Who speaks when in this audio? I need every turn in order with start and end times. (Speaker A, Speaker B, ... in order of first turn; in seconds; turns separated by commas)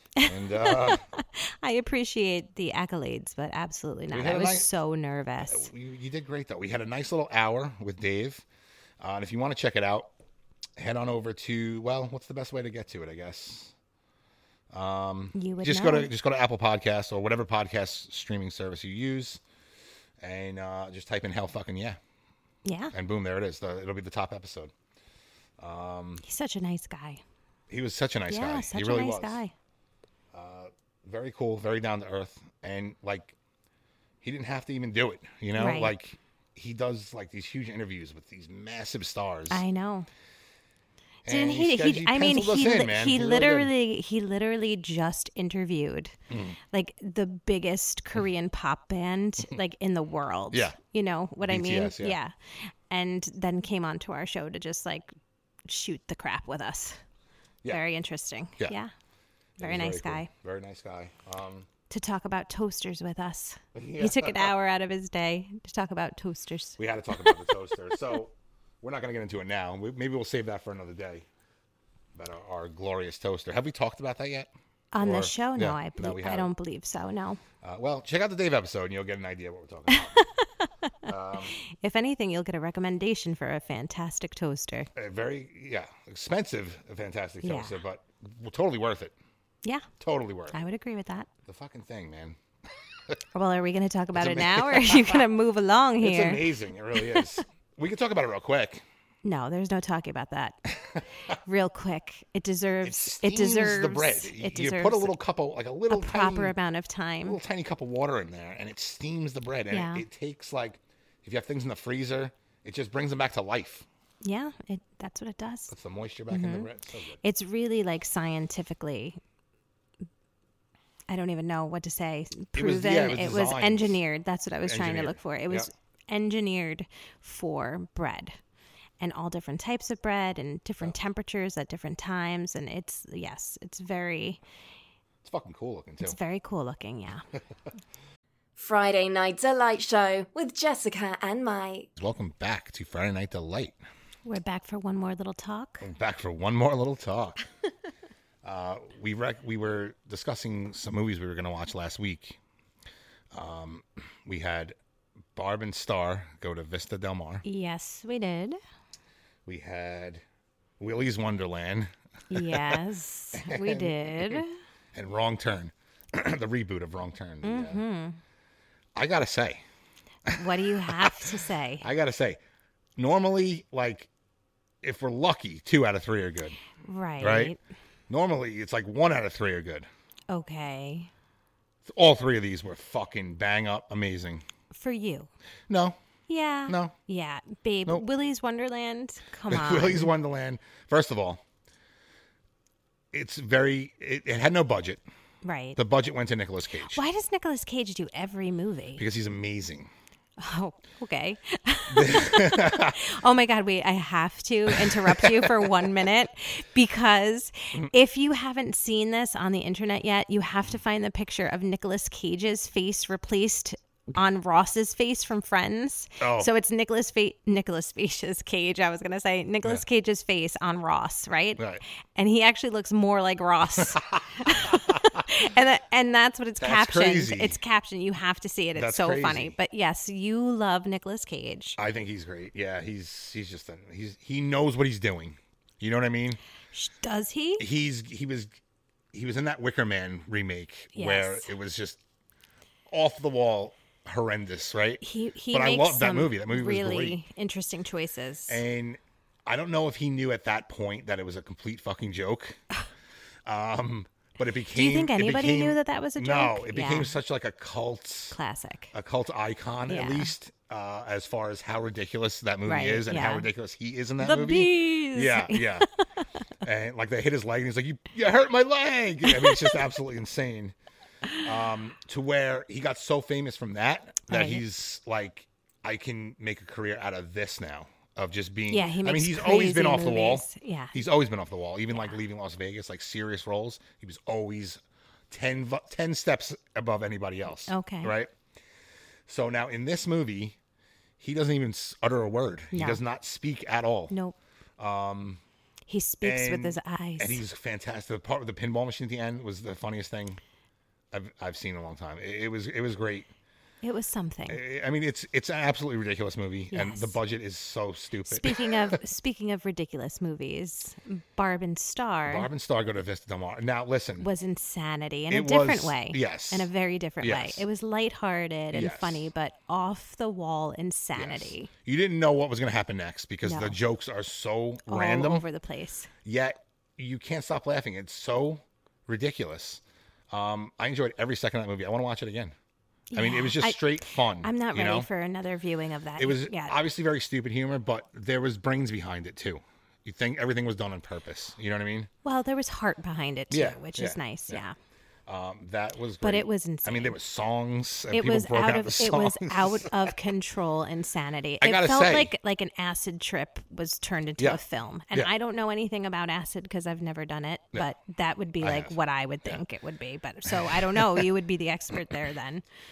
Speaker A: 0.2-5.7, Speaker B: 0.2-1.0, Speaker B: 4.1-4.7, Speaker B: 5.5-8.4, Speaker B: 9.0-10.1, Speaker B: 10.8-13.7, Speaker B: 14.7-19.4, Speaker A: 15.3-16.1, Speaker B: 20.2-22.0, Speaker A: 22.6-22.9, Speaker B: 22.9-24.7, Speaker B: 25.6-26.2, Speaker A: 26.2-27.2, Speaker B: 27.7-29.4, Speaker A: 28.3-29.5, Speaker B: 30.3-33.3, Speaker B: 34.2-39.6, Speaker A: 35.5-35.9, Speaker A: 39.5-40.1, Speaker B: 41.2-43.7, Speaker A: 41.2-46.1, Speaker B: 46.3-46.6, Speaker A: 46.7-55.1, Speaker B: 50.5-50.8, Speaker B: 51.4-52.2, Speaker A: 55.7-57.0, Speaker A: 57.7-58.9, Speaker A: 59.6-60.3, Speaker B: 59.6-61.7, Speaker A: 61.9-67.4, Speaker B: 63.7-64.5, Speaker B: 66.8-71.2, Speaker B: 72.1-76.5, Speaker A: 74.9-77.4, Speaker B: 77.6-80.2, Speaker A: 79.9-80.5, Speaker B: 81.0-81.5, Speaker A: 81.5-84.9, Speaker B: 84.9-89.1, Speaker A: 87.4-87.8, Speaker B: 90.0-90.6, Speaker A: 90.5-91.3, Speaker B: 91.5-92.4, Speaker A: 93.3-96.4, Speaker B: 94.1-95.2, Speaker B: 96.0-98.8, Speaker A: 97.0-97.4, Speaker A: 99.2-100.6, Speaker A: 101.4-105.1, Speaker B: 102.8-106.5, Speaker A: 105.9-107.4, Speaker B: 107.2-113.8, Speaker A: 109.7-110.0, Speaker A: 114.2-115.7, Speaker B: 115.7-117.2, Speaker A: 116.3-116.7, Speaker A: 117.2-119.2, Speaker A: 121.1-128.4, Speaker B: 122.5-124.0, Speaker B: 124.6-125.7, Speaker A: 129.0-134.4, Speaker B: 135.2-136.2, Speaker A: 136.0-137.2, Speaker C: 138.6-141.9, Speaker B: 142.0-143.8, Speaker A: 144.2-145.9, Speaker B: 145.8-147.4, Speaker B: 148.4-152.4, Speaker B: 153.3-154.8, Speaker B: 155.3-157.4, Speaker A: 157.4-158.6, Speaker B: 159.4-160.2, Speaker B: 160.8-162.8, Speaker A: 162.3-164.5, Speaker B: 163.3-167.8, Speaker A: 167.4-168.2, Speaker B: 168.9-169.6, Speaker B: 170.3-171.3, Speaker A: 170.3-171.8, Speaker B: 171.8-172.4, Speaker B: 173.0-174.1, Speaker B: 174.8-176.6, Speaker A: 176.8-177.6, Speaker B: 177.2-177.5, Speaker B: 178.1-179.9, Speaker A: 180.3-181.1, Speaker B: 181.8-184.4, Speaker A: 184.7-185.3, Speaker B: 185.7-186.0, Speaker A: 186.3-190.1, Speaker B: 186.7-186.9, Speaker B: 189.5-191.4, Speaker B: 193.1-195.0, Speaker A: 195.4-195.8, Speaker B: 195.8-197.0, Speaker A: 196.9-199.0, Speaker B: 199.0-199.9, Speaker A: 200.4-231.8, Speaker B: 201.9-203.0, Speaker B: 204.7-205.7, Speaker B: 216.2-216.5, Speaker B: 223.8-225.0, Speaker B: 226.6-227.6, Speaker B: 228.7-229.5, Speaker B: 231.8-236.4, Speaker A: 236.7-237.7, Speaker B: 237.6-238.5, Speaker B: 239.1-242.0, Speaker A: 240.9-241.5, Speaker B: 242.9-247.2, Speaker A: 245.0-248.6, Speaker B: 248.5-252.6, Speaker B: 253.4-258.4, Speaker A: 254.7-257.1, Speaker A: 258.3-258.9, Speaker B: 258.9-265.9, Speaker A: 259.9-260.3, Speaker A: 262.6-263.5, Speaker A: 264.2-265.8, Speaker B: 266.6-270.7, Speaker A: 269.3-269.8, Speaker B: 271.4-288.3, Speaker A: 274.3-274.6, Speaker A: 278.7-281.0, Speaker A: 287.7-288.1, Speaker B: 289.3-290.6, Speaker B: 291.2-294.1, Speaker A: 292.7-293.0, Speaker A: 294.1-294.4, Speaker B: 294.8-295.4, Speaker A: 295.9-297.4, Speaker B: 296.2-300.4, Speaker B: 301.1-303.3, Speaker A: 303.8-304.6, Speaker B: 304.5-309.0, Speaker A: 306.7-307.1, Speaker A: 308.3-312.5, Speaker B: 312.2-314.3, Speaker A: 314.2-321.7, Speaker B: 315.3-316.7, Speaker B: 317.2-317.6, Speaker B: 318.7-319.3, Speaker B: 321.1-325.4, Speaker A: 323.4-323.8, Speaker A: 324.9-326.1, Speaker B: 326.2-332.5, Speaker A: 333.1-336.8, Speaker B: 333.1-335.1, Speaker B: 336.2-342.1, Speaker A: 342.2-344.7, Speaker B: 343.5-344.6, Speaker B: 345.3-350.1, Speaker A: 346.2-347.2, Speaker A: 348.1-362.6, Speaker B: 351.6-352.3, Speaker B: 358.6-358.9, Speaker B: 360.5-361.3